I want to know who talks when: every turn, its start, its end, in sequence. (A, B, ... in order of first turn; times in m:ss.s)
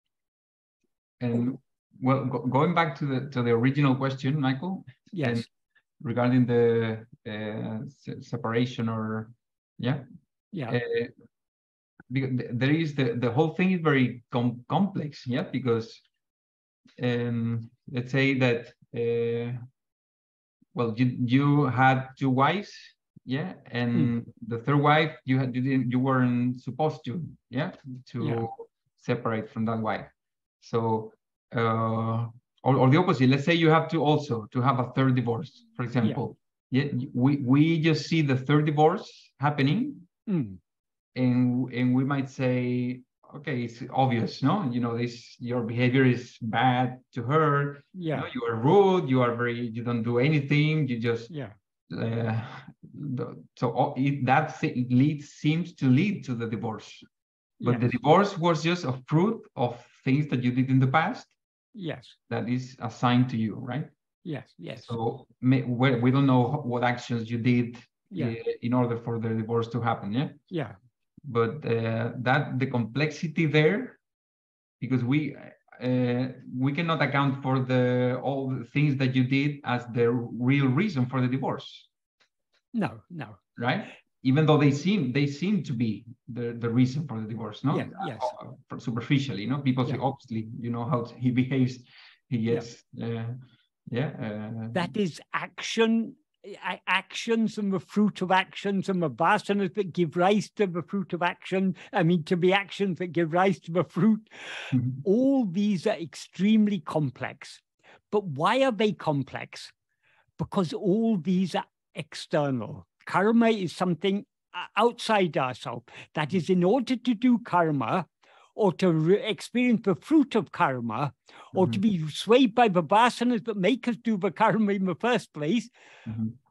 0:01.2-0:05.5 A
0:05.1-0:05.4 B
0:06.0-0:10.0 A
0:10.5-0:10.8 B
0:10.7-0:11.1 A
0:12.1-0:16.0 A
0:17.0-0:19.6 A
0:20.7-0:40.1 A
0:28.2-0:28.4 B
0:40.3-0:40.6 B
0:41.1-0:51.3 A
0:47.9-0:48.3 B
0:51.9-0:57.0 A
0:57.6-0:57.9 B
0:57.6-1:01.3 A
1:01.7-1:02.1 B
1:02.3-1:03.9 A
1:04.2-1:04.9 B
1:04.8-1:10.4 A
1:10.5-1:10.8 B
1:11.2-1:14.0 A
1:14.8-1:21.9 A
1:22.7-1:23.4 B
1:23.6-1:34.9 A
1:27.7-1:28.3 B
1:34.7-1:49.7 B
1:50.4-2:05.7 B
2:01.5-2:01.8 A
2:06.0-2:06.3 A